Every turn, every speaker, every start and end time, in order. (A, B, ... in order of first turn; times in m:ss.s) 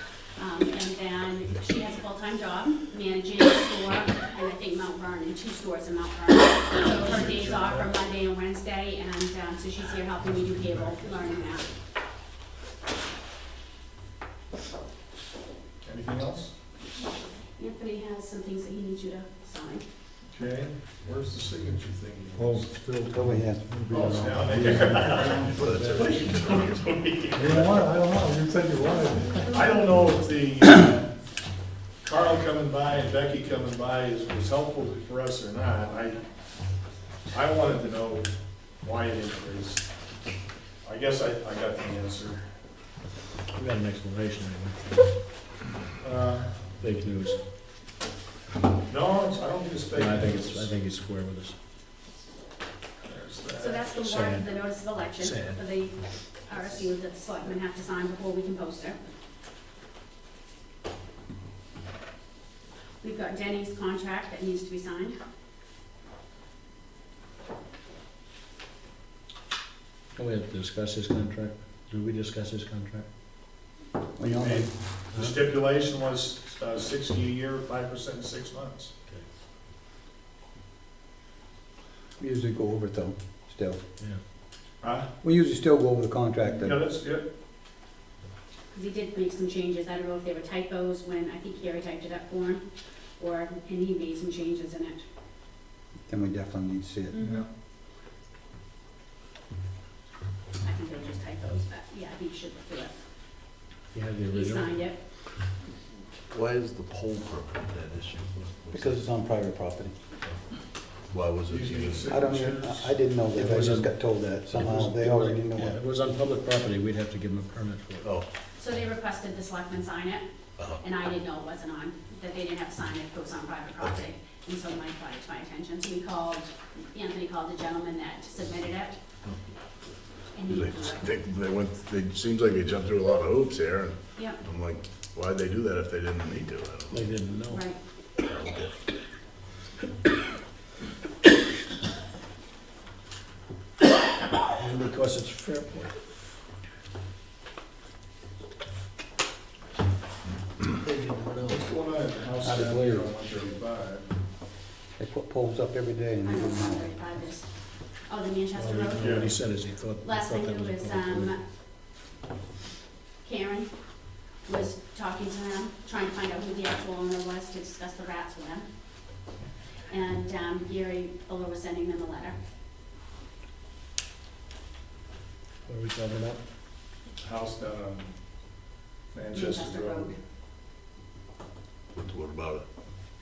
0:00.4-0:11.7 A
0:07.1-0:07.9 B
0:15.8-0:16.5 B
0:17.6-0:19.9 A
0:20.3-0:22.7 B
0:22.4-0:26.0 C
0:23.1-0:23.7 D
0:23.9-0:27.7 B
0:25.5-0:26.8 E
0:27.3-0:30.0 C
0:28.8-0:29.8 A
0:29.5-0:31.1 B
0:32.0-0:36.2 B
0:37.3-0:38.3 B
0:38.8-0:39.8 B
0:40.8-0:42.5 B
0:43.5-0:45.0 F
0:46.0-0:46.7 B
0:46.8-0:47.4 F
0:48.9-0:50.7 B
0:49.9-0:51.6 F
0:53.0-0:53.9 B
0:53.6-0:59.0 A
0:54.0-0:55.6 F
1:03.0-1:05.2 A
1:10.2-1:13.0 F
1:14.2-1:14.7 D
1:14.2-1:18.9 B
1:15.1-1:15.4 F
1:22.2-1:23.8 D
1:24.8-1:25.1 B
1:25.2-1:26.8 D
1:26.4-1:27.3 B
1:28.7-1:32.6 A
1:33.2-1:35.0 A
1:36.1-1:37.2 D
1:37.1-1:37.5 A
1:37.2-1:37.5 B
1:40.6-1:43.0 A
1:43.9-1:44.8 F
1:44.3-1:45.0 A
1:46.3-1:49.0 E
1:48.7-1:49.9 D
1:51.1-1:52.2 E
1:51.5-1:52.9 B
1:52.1-1:55.8 D
1:53.3-1:53.9 F
1:54.5-1:58.1 F
1:58.6-2:00.2 A
2:00.8-2:09.0 A
2:10.3-2:11.1 A
2:10.5-2:17.1 E
2:14.2-2:14.4 A
2:16.9-2:17.6 F
2:17.5-2:17.8 A
2:18.2-2:18.7 E
2:24.5-2:25.9 F
2:30.8-2:31.7 F
2:31.5-2:34.1 B
2:32.4-2:33.1 F
2:35.0-2:37.0 D
2:36.2-2:37.5 A
2:38.0-2:39.3 A
2:38.6-2:41.3 F
2:39.0-2:39.4 B
2:40.0-2:41.4 A
2:43.2-2:48.7 A
2:49.9-2:52.4 A
2:55.7-2:56.4 F
2:57.2-2:58.2 B
2:59.1-3:00.1 B
2:59.3-3:00.2 A
3:02.0-3:02.6 E